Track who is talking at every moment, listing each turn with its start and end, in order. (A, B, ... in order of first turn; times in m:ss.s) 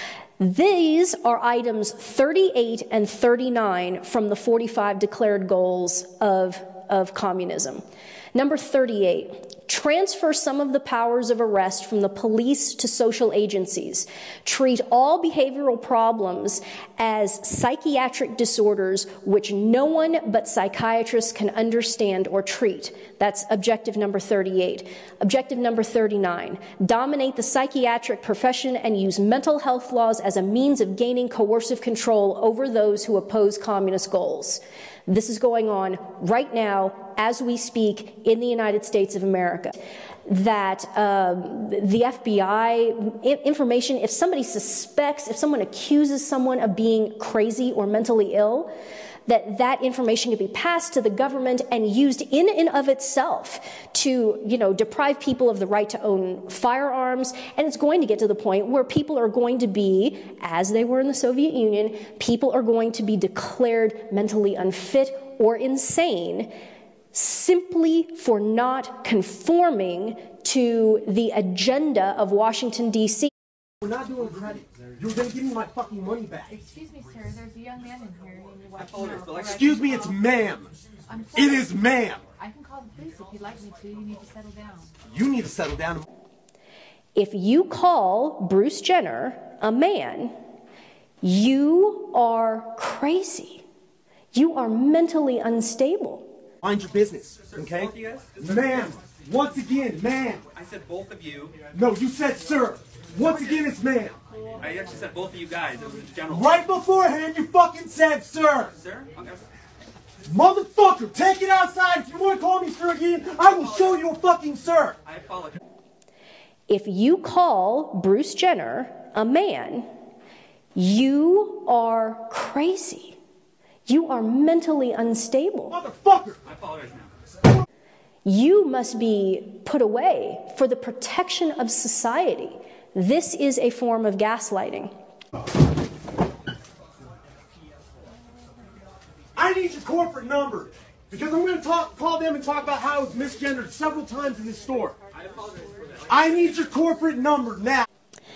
0:00.4-0:48.7 A
0:49.3-1:06.5 A
1:07.1-1:13.3 A
1:13.8-1:16.6 B
1:16.6-1:20.2 C
1:18.8-1:19.7 D
1:19.5-1:20.8 B
1:21.1-1:24.9 C
1:21.3-1:22.2 B
1:25.1-1:26.0 B
1:27.1-1:30.3 A
1:31.2-1:33.6 A
1:34.3-1:36.3 A
1:36.6-1:40.4 B
1:37.4-1:39.2 D
1:40.5-1:41.7 D
1:41.7-1:44.2 B
1:44.6-1:45.0 C
1:44.6-1:46.6 D
1:46.3-1:48.7 B
1:48.7-1:49.5 D
1:50.2-1:55.0 B
1:53.4-1:54.0 D
1:55.0-1:55.6 D
1:56.7-1:59.9 A
2:00.7-2:03.2 A
2:03.9-2:05.7 A
2:05.7-2:06.4 B
2:06.4-2:07.2 D
2:08.2-2:14.9 A
2:19.3-2:25.0 B
2:25.1-2:26.6 D
2:26.1-2:27.9 B